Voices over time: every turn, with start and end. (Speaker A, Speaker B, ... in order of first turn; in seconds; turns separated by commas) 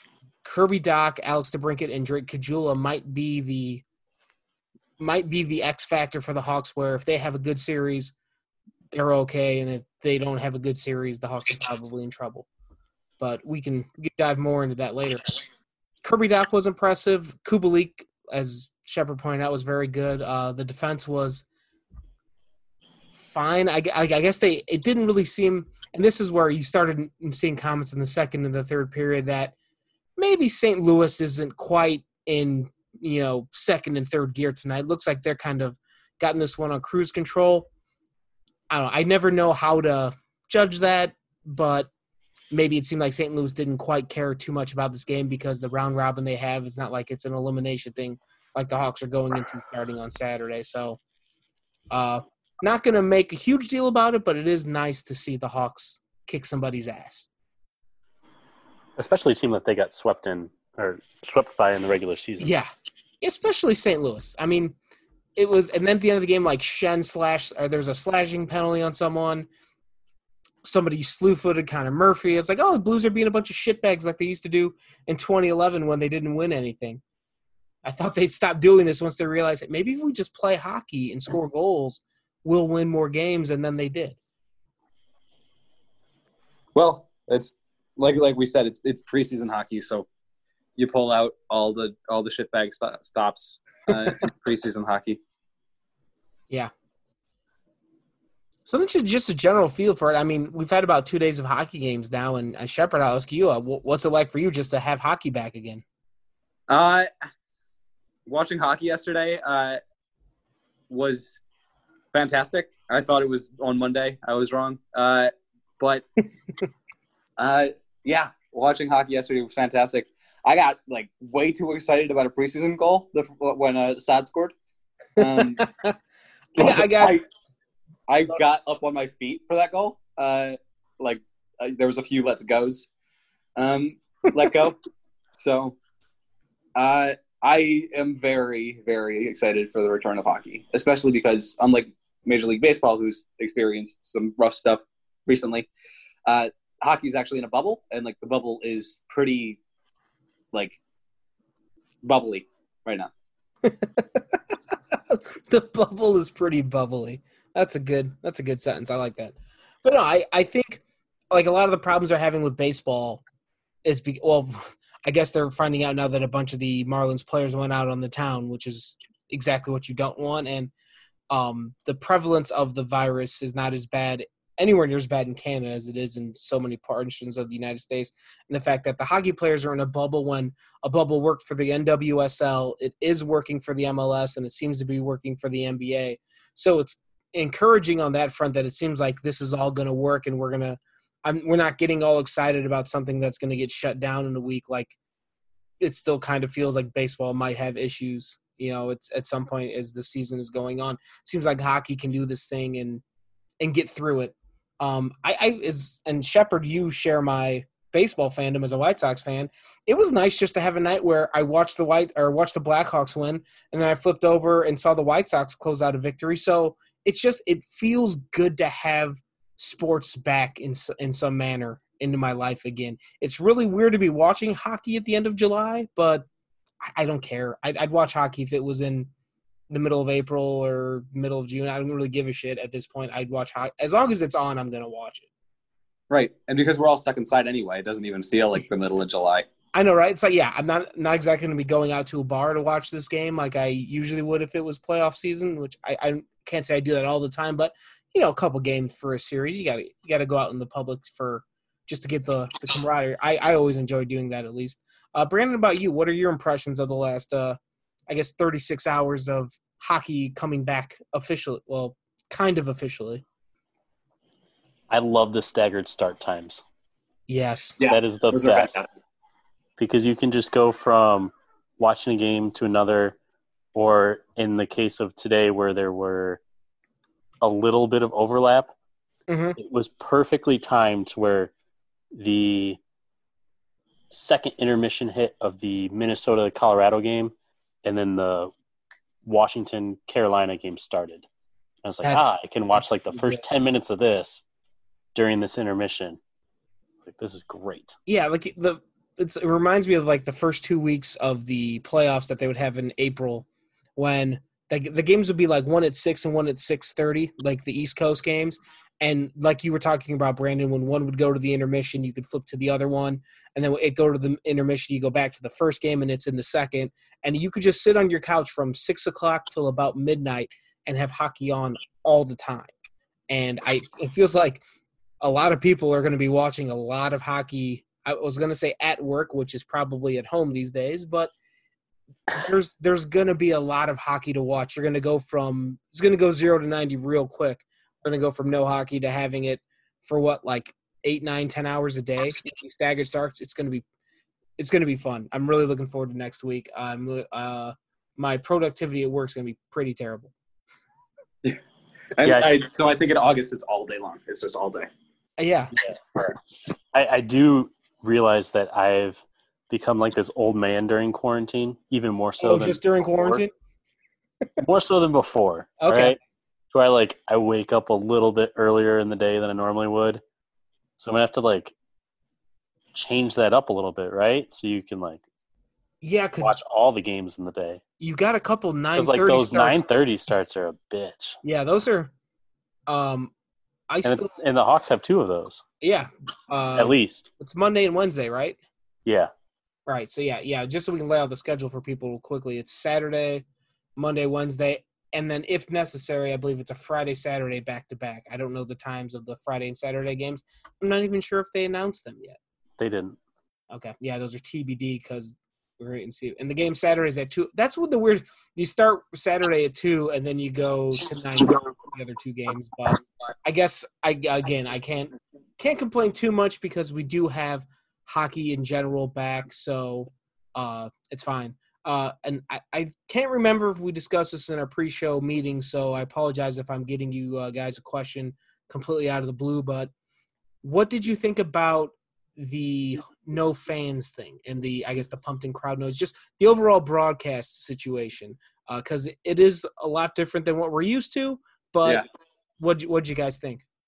Speaker A: 0.4-3.8, Speaker A: 5.0-8.1, Speaker A: 8.9-12.5, Speaker A: 13.2-15.3, Speaker A: 16.0-21.4, Speaker A: 23.1-29.5, Speaker A: 30.1-37.7, Speaker A: 38.7-41.9, Speaker A: 42.5-51.0, Speaker A: 51.9-57.3, Speaker B: 59.0-62.5, Speaker A: 62.4-62.7, Speaker A: 63.2-64.8, Speaker A: 65.3-69.5, Speaker A: 70.6-77.0, Speaker A: 77.8-84.2, Speaker C: 86.7-90.1, Speaker C: 90.8-95.2, Speaker A: 98.7-105.8, Speaker C: 106.7-107.1, Speaker C: 108.3-109.8, Speaker C: 110.9-111.4, Speaker C: 112.1-116.0, Speaker C: 117.4-124.5, Speaker C: 125.2-125.6, Speaker A: 125.2-126.0, Speaker A: 126.6-127.2, Speaker C: 126.6-127.2, Speaker C: 128.1-132.9, Speaker C: 133.6-134.8, Speaker C: 135.3-135.8, Speaker C: 136.7-145.7, Speaker C: 146.2-149.6, Speaker C: 150.5-150.8, Speaker C: 152.0-153.1, Speaker A: 153.6-163.2, Speaker A: 163.8-170.7, Speaker A: 171.3-195.0, Speaker A: 195.8-203.0, Speaker A: 203.6-226.2, Speaker A: 226.8-229.1, Speaker A: 229.7-235.3, Speaker C: 236.1-239.5, Speaker A: 239.7-263.2, Speaker B: 264.9-266.6, Speaker A: 267.3-267.8, Speaker C: 267.8-268.9, Speaker B: 267.9-268.8, Speaker B: 269.8-273.1, Speaker B: 273.7-276.4, Speaker B: 277.4-278.7, Speaker A: 279.3-279.6, Speaker B: 279.6-281.5, Speaker B: 282.1-282.8, Speaker B: 284.1-288.5, Speaker B: 289.2-291.2, Speaker B: 291.8-294.4, Speaker A: 292.0-292.3, Speaker A: 293.1-293.4, Speaker B: 295.1-296.2, Speaker B: 297.0-297.9, Speaker A: 298.1-322.7, Speaker A: 323.3-324.6, Speaker A: 325.2-331.3, Speaker A: 332.3-343.8, Speaker A: 344.6-350.3, Speaker C: 352.1-354.9, Speaker B: 352.2-352.6, Speaker A: 355.4-355.7, Speaker B: 355.9-356.3, Speaker B: 356.9-363.4, Speaker A: 362.4-363.5, Speaker B: 364.6-366.2, Speaker A: 365.8-366.2, Speaker B: 366.7-370.2, Speaker B: 371.0-371.7, Speaker B: 372.9-375.2, Speaker A: 376.0-376.6, Speaker B: 376.4-377.8, Speaker A: 378.0-379.8, Speaker B: 378.9-381.4, Speaker A: 381.4-382.1, Speaker A: 382.9-383.3, Speaker A: 383.9-384.3, Speaker B: 384.0-385.6, Speaker A: 385.8-388.6, Speaker B: 386.8-387.3, Speaker B: 389.1-389.3, Speaker A: 389.9-393.4, Speaker A: 393.9-402.4, Speaker B: 402.8-403.2, Speaker A: 403.7-429.9, Speaker A: 430.6-442.0, Speaker A: 442.6-443.6